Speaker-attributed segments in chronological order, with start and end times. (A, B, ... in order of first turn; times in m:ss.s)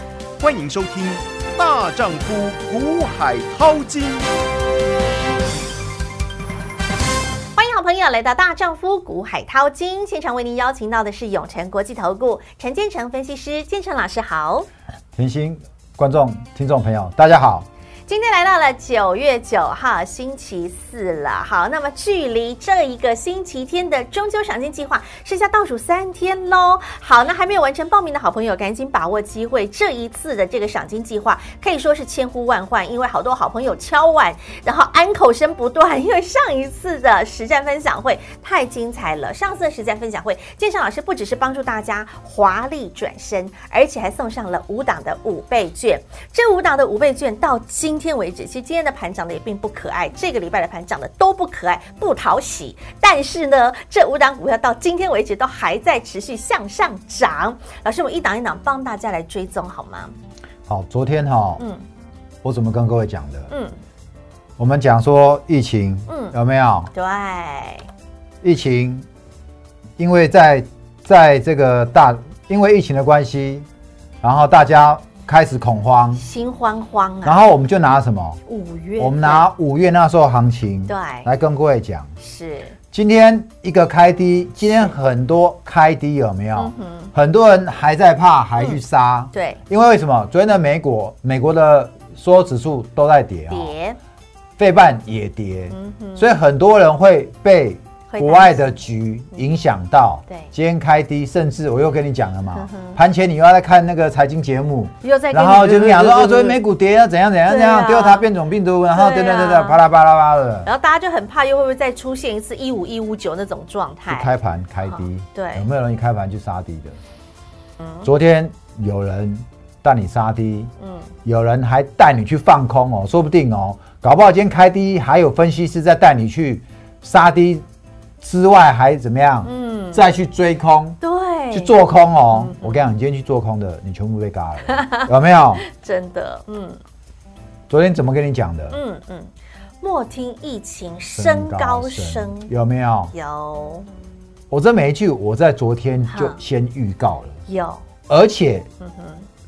0:00.4-0:04.3 A
0:07.6-0:14.7 B
0:15.1-0:17.7 C
0:18.1-1:00.1 B
1:00.7-1:01.6 C
1:01.6-1:01.8 B
1:02.4-1:03.5 C
1:03.5-1:03.8 B
1:04.6-1:06.9 C
1:06.1-1:06.4 B
1:06.9-1:07.9 B
1:08.4-1:09.1 C
1:10.0-1:13.7 C
1:14.2-1:16.2 C
1:16.2-1:17.4 B
1:17.2-1:18.4 C
1:18.5-1:19.5 B
1:19.0-1:22.2 C
1:20.9-1:21.3 B
1:22.2-1:22.8 B
1:22.9-1:33.8 C
1:26.6-1:27.1 B
1:29.3-1:29.6 B
1:33.5-1:34.0 B
1:34.6-1:50.7 C
1:35.7-1:36.3 B
1:38.1-1:38.8 B
1:42.5-1:43.0 B
1:45.0-1:46.6 B
1:47.5-1:48.3 B
1:48.9-1:49.8 B
1:50.6-1:54.3 B
1:54.1-1:57.0 C
1:54.9-1:55.7 B
1:58.0-2:00.7 C
2:00.8-2:01.1 B
2:01.2-2:07.7 C
2:08.2-2:11.0 C
2:09.4-2:10.0 B
2:11.0-2:11.8 B
2:11.5-2:15.6 C
2:12.3-2:12.8 B
2:14.7-2:15.1 B
2:15.6-2:16.8 B
2:17.7-2:18.8 C
2:18.7-2:22.5 B
2:21.1-2:23.1 C
2:23.1-2:23.8 B
2:24.5-2:27.4 C
2:26.1-2:26.4 B
2:27.5-2:27.8 B
2:28.1-2:28.7 C
2:28.8-2:29.3 B